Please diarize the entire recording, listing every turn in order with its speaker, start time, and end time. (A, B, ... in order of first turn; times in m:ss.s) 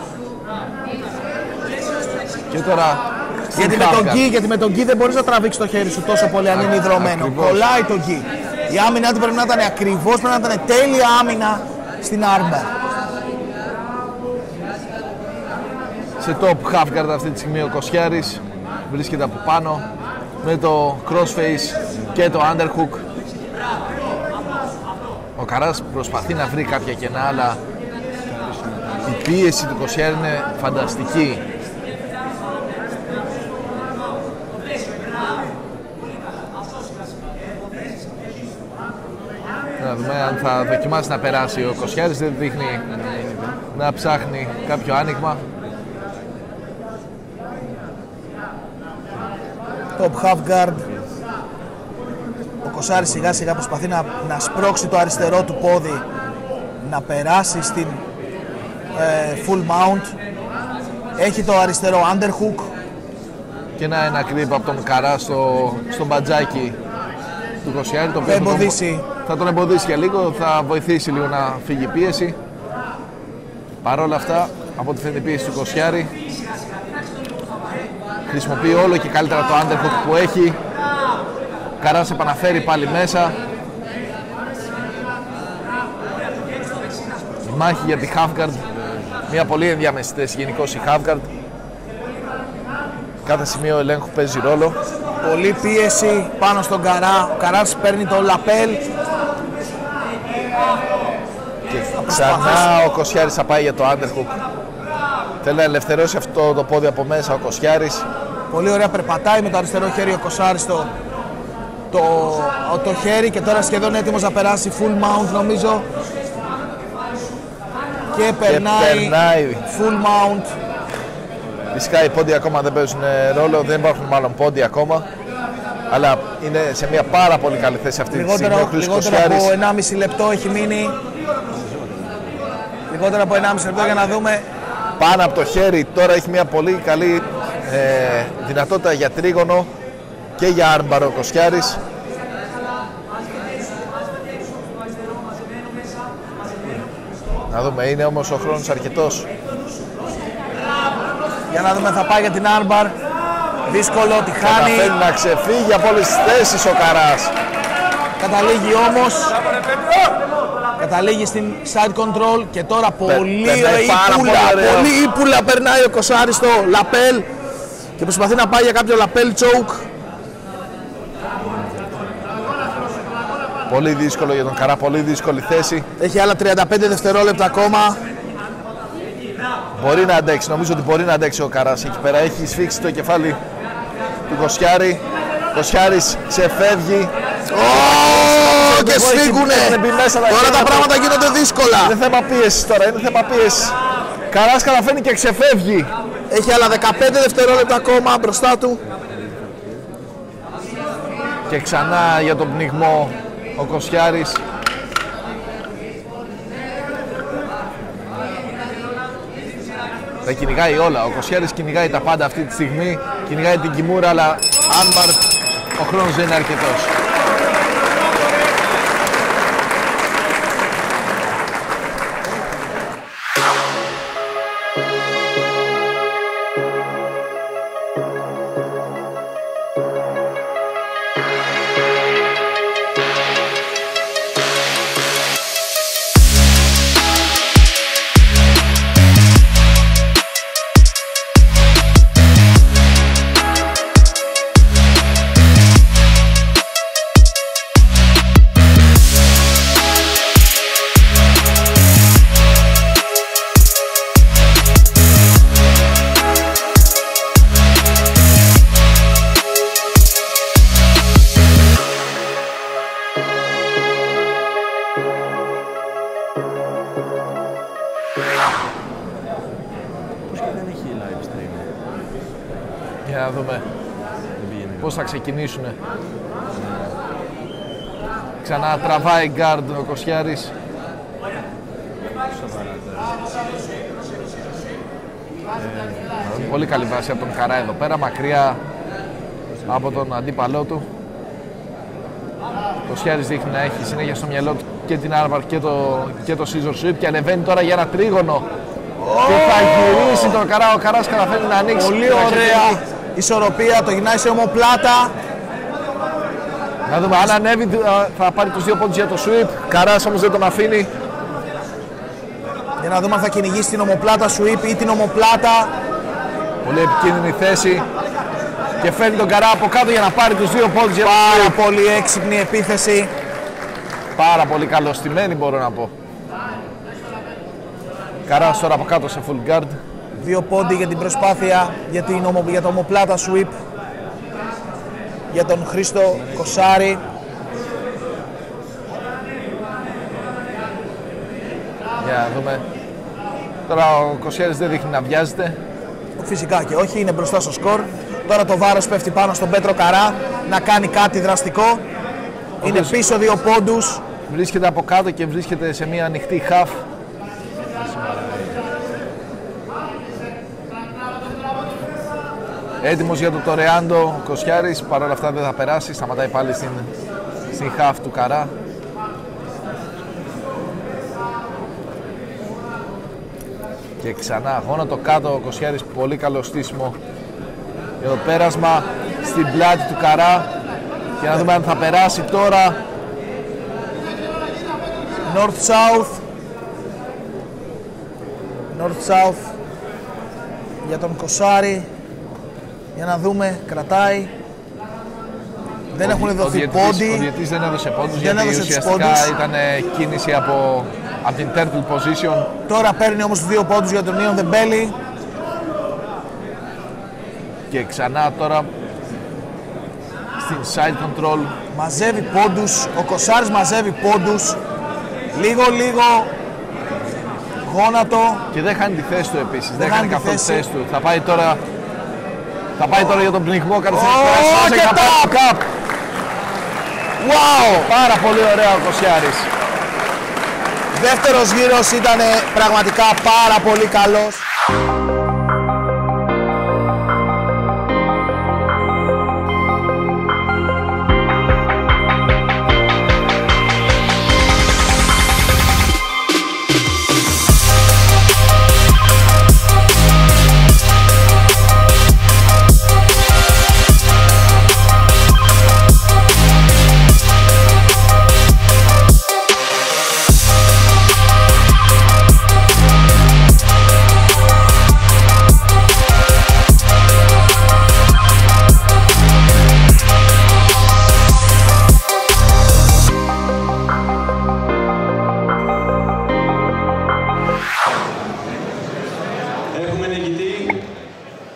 0:02.5-0:04.2 A
0:03.5-0:12.7 B
0:06.5-0:07.7 A
0:16.2-0:19.8 A
0:20.4-0:23.0 A
0:25.4-0:27.6 A
0:28.3-0:29.1 C
0:29.0-0:31.4 A
0:39.8-0:42.9 A
0:43.0-0:43.7 C
0:43.7-0:45.4 A
0:50.0-0:50.9 B
0:52.6-0:56.0 B
0:56.8-0:58.0 B
0:59.0-1:00.1 B
1:01.2-1:02.7 B
1:03.8-1:06.8 A
1:07.6-1:12.4 A
1:08.2-1:09.1 B
1:13.8-1:16.1 A
1:18.3-1:20.6 A
1:21.8-1:23.4 A
1:27.4-1:28.7 A
1:29.3-1:31.3 A
1:33.2-1:34.8 A
1:35.2-1:38.8 B
1:41.7-1:44.4 A
1:42.0-1:42.7 B
1:45.4-1:48.1 A
1:48.5-1:50.9 B
1:51.9-1:55.8 B
1:58.1-1:59.2 B
1:58.4-1:59.7 A
1:59.7-2:00.5 B
2:01.7-2:05.1 A
2:05.9-2:09.5 A
2:08.1-2:11.0 B
2:11.5-2:12.6 C
2:12.9-2:14.5 B
2:15.0-2:19.7 A
2:20.4-2:21.8 A
2:27.5-2:29.3 A
2:31.5-2:33.0 B
2:33.7-2:34.9 B
2:34.4-2:37.3 A
2:38.2-2:39.4 B
2:40.8-2:47.3 B
2:43.1-2:44.9 A
2:48.0-2:49.8 B
2:51.5-2:52.4 C
2:53.7-2:55.9 A
2:56.0-2:58.0 B
2:59.8-3:03.4 A
3:04.3-3:07.1 A
3:07.5-3:12.0 B
3:07.7-3:10.9 A
3:11.8-3:13.8 A
3:14.3-3:15.9 A
3:16.3-3:18.8 B
3:19.3-3:19.7 C
3:21.5-3:24.4 A
3:30.2-3:35.2 A
3:35.8-3:36.9 A
4:30.3-4:31.7 C
4:33.0-4:33.6 A
4:34.4-4:35.1 C
4:34.8-4:35.8 A
4:36.6-4:36.9 C
4:38.4-4:40.5 A
4:42.4-4:43.2 C
4:45.7-4:46.2 C
4:46.2-4:48.6 A
4:49.6-4:50.8 A
4:52.9-4:58.4 A
4:59.0-5:00.4 B
4:59.2-5:02.8 A
5:01.7-5:05.1 B
5:06.9-5:10.9 A
5:07.1-5:07.4 B
5:12.8-5:15.7 B
5:16.6-5:17.9 A
5:18.8-5:21.6 A
5:21.0-5:23.1 B
5:24.2-5:25.9 A
5:28.3-5:29.8 A
5:30.2-5:33.6 B
5:35.3-5:37.0 B
5:42.0-5:42.6 A
5:43.7-5:45.6 A
5:46.2-5:51.8 B
5:52.6-5:53.0 A
5:52.6-5:54.0 B
5:54.3-5:56.8 A
5:57.9-5:58.4 C
6:02.8-6:06.9 A
6:07.5-6:08.5 A
6:14.0-6:17.0 A
6:18.0-6:20.5 A
6:21.2-6:22.8 A
6:25.3-6:26.2 B
6:28.7-6:29.5 B
6:30.8-6:31.9 B
6:33.0-6:34.3 B
6:35.9-6:37.3 B
6:36.0-6:42.5 A
6:38.1-6:39.3 B
6:42.7-6:45.0 B
6:47.7-6:48.7 A
6:50.4-6:51.6 A
6:51.7-6:54.6 B
6:55.3-6:56.3 B
6:57.6-6:58.4 B
6:58.5-7:01.6 A
6:59.8-7:00.7 B
7:02.8-7:05.6 A
7:03.9-7:05.5 B
7:07.2-7:07.9 B
7:07.7-7:09.5 A
7:10.9-7:14.4 B
7:59.7-8:00.9 A